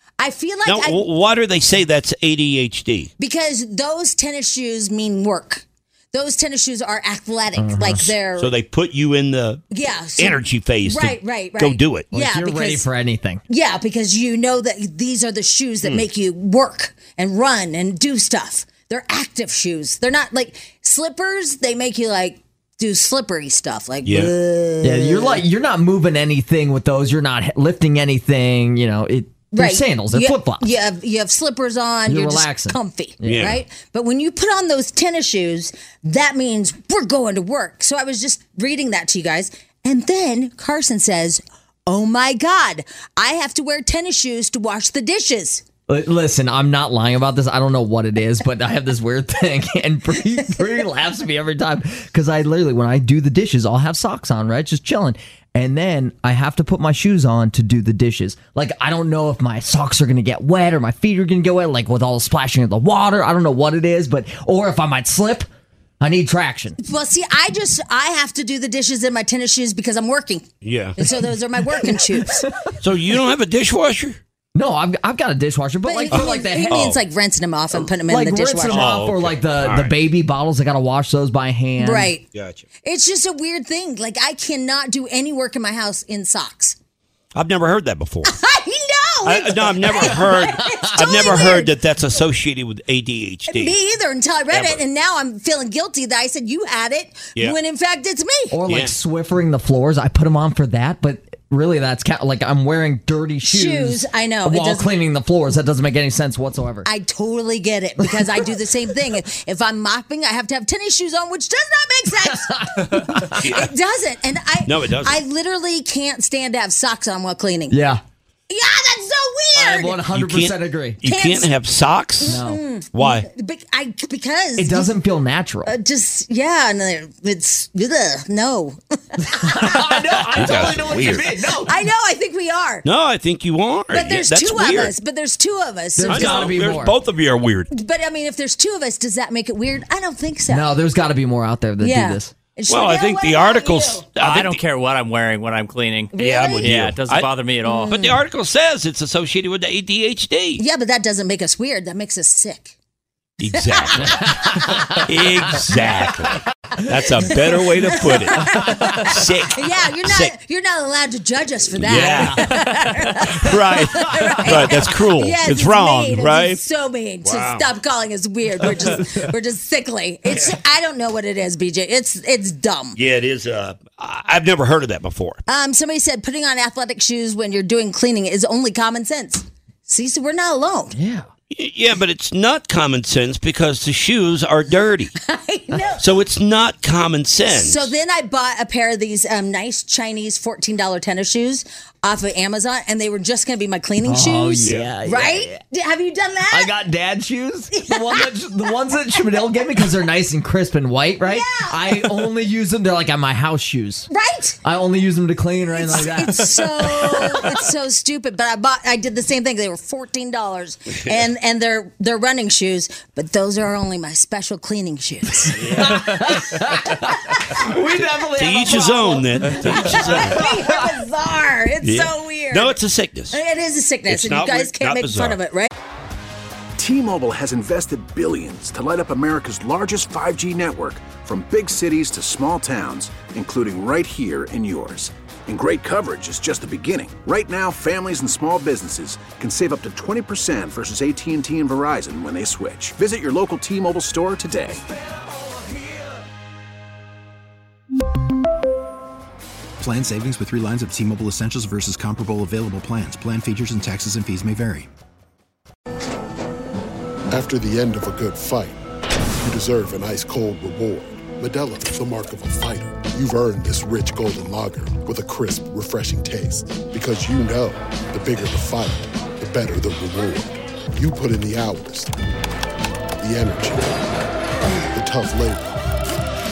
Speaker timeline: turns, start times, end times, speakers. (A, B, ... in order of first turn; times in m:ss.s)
0:00.2-0:01.0 A
0:00.7-0:03.1 B
0:03.2-0:08.5 A
0:07.6-0:08.1 C
0:08.4-0:09.6 B
0:09.7-0:12.9 A
0:10.2-0:12.1 B
0:12.1-0:13.4 C
0:13.5-0:25.4 A
0:24.0-0:24.3 B
0:24.8-0:30.7 C
0:29.5-0:45.6 A
0:32.1-0:33.5 C
0:33.2-0:33.6 B
0:45.9-1:05.5 C
1:06.0-1:06.8 C
1:06.8-1:10.5 A
1:10.6-1:11.0 B
1:11.0-1:12.5 A
1:11.8-1:12.5 C
1:12.8-1:14.2 B
1:14.6-1:16.9 C
1:15.8-1:19.0 A
1:16.1-1:17.0 B
1:18.0-1:22.2 C
1:18.7-1:20.0 B
1:21.8-1:22.2 A
1:22.3-1:22.6 B
1:22.8-1:26.8 A
1:27.4-1:28.3 B
1:28.2-1:31.7 A
1:29.2-1:33.8 B
1:33.5-1:38.6 A
1:34.5-1:34.8 B
1:38.5-1:46.9 C
1:38.7-1:39.0 B
1:43.4-1:44.9 A
1:46.8-1:57.8 A
1:52.4-1:53.3 C
1:52.9-1:53.7 B
1:54.7-1:55.2 B
1:57.7-1:58.0 C
1:58.5-2:00.0 A
1:59.6-2:01.0 C
2:00.1-2:02.4 B
2:01.0-2:01.5 A
2:02.2-2:04.9 A
2:02.3-2:02.6 C
2:02.9-2:03.3 B
2:04.6-2:05.7 C
2:05.7-2:10.7 A
2:09.2-2:11.8 C
2:10.4-2:11.3 B
2:11.6-2:12.8 A
2:12.8-2:14.9 B
2:13.9-2:16.5 A
2:16.0-2:17.0 C
2:16.1-2:17.7 B
2:17.7-2:20.7 A
2:20.5-2:22.3 C
2:21.8-2:24.1 A
2:22.7-2:24.6 B
2:24.2-2:28.0 D
2:26.1-2:26.7 A
2:26.2-2:27.3 B
2:27.7-2:28.1 A
2:27.9-2:30.6 B
2:30.6-2:32.8 A
2:33.4-2:40.3 B
2:33.7-2:35.0 A
2:34.1-2:35.0 C
2:37.3-2:53.0 A
2:41.8-2:46.6 B
2:41.9-2:42.4 C
2:47.2-2:47.7 B
2:53.0-2:55.4 B
2:55.5-3:01.0 A
3:00.9-3:01.3 C
3:01.5-3:05.1 B
3:05.2-3:06.0 A
3:06.0-3:07.9 B
3:07.5-3:16.7 A
3:14.0-3:15.6 C
3:14.6-3:14.9 B
3:16.5-3:24.1 C
3:17.7-3:18.8 A
3:21.2-3:22.1 A
3:24.1-3:24.6 A
3:24.6-3:27.5 C
3:25.8-3:36.7 A
3:35.5-3:36.3 B
3:35.8-3:40.9 C
3:38.4-3:40.5 B
3:39.7-3:42.8 A
3:41.8-3:43.4 B
3:43.3-3:45.7 A
3:44.1-3:45.4 B
3:46.8-4:04.8 E
4:09.8-4:14.9 F
4:17.3-4:18.8 G
4:19.4-4:32.1 G
4:33.2-4:34.1 G
4:34.9-4:35.8 G